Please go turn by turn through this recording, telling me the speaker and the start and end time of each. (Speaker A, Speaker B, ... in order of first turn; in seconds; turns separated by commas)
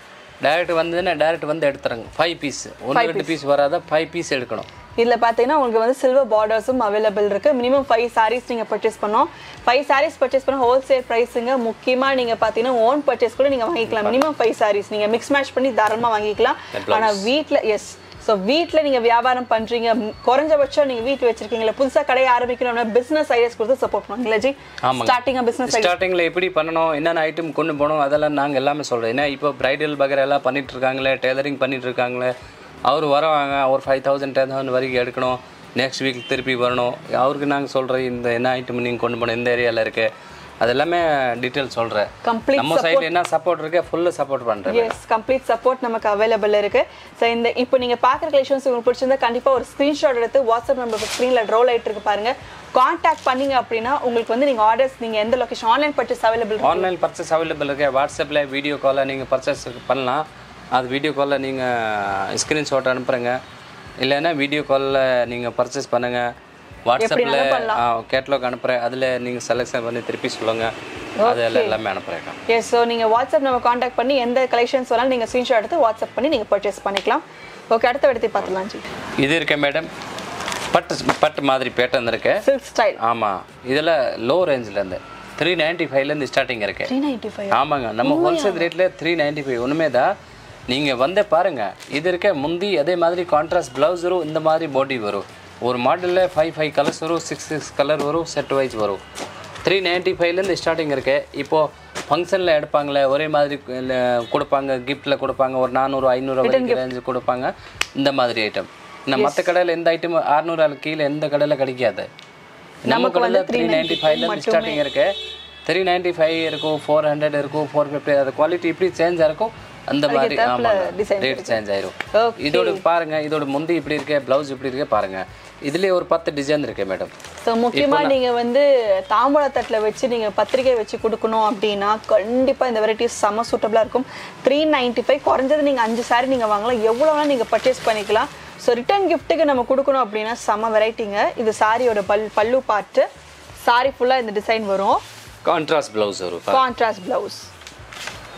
Speaker A: 0.4-4.7, Speaker B: 2.9-3.4, Speaker B: 5.0-25.9, Speaker A: 13.9-14.3, Speaker A: 16.7-17.2, Speaker A: 24.8-32.3, Speaker A: 32.9-45.0, Speaker B: 42.2-43.1, Speaker B: 44.7-56.9, Speaker A: 56.6-63.4, Speaker A: 64.0-66.3, Speaker A: 66.9-70.7, Speaker B: 67.0-67.8, Speaker B: 71.2-71.8, Speaker A: 71.2-72.4, Speaker B: 72.5-78.8, Speaker A: 79.2-79.9, Speaker A: 80.7-82.4, Speaker B: 82.4-83.0, Speaker A: 83.0-86.9, Speaker B: 86.9-88.7, Speaker A: 87.5-90.1, Speaker A: 90.7-99.0, Speaker A: 99.6-112.1, Speaker B: 106.4-106.9, Speaker B: 109.1-109.5, Speaker A: 112.8-115.1, Speaker B: 112.9-114.8, Speaker A: 115.7-127.1, Speaker B: 120.1-121.6, Speaker B: 122.1-122.8, Speaker B: 127.4-143.1, Speaker A: 127.7-128.1, Speaker B: 143.6-145.0, Speaker A: 145.4-146.7, Speaker B: 146.5-147.5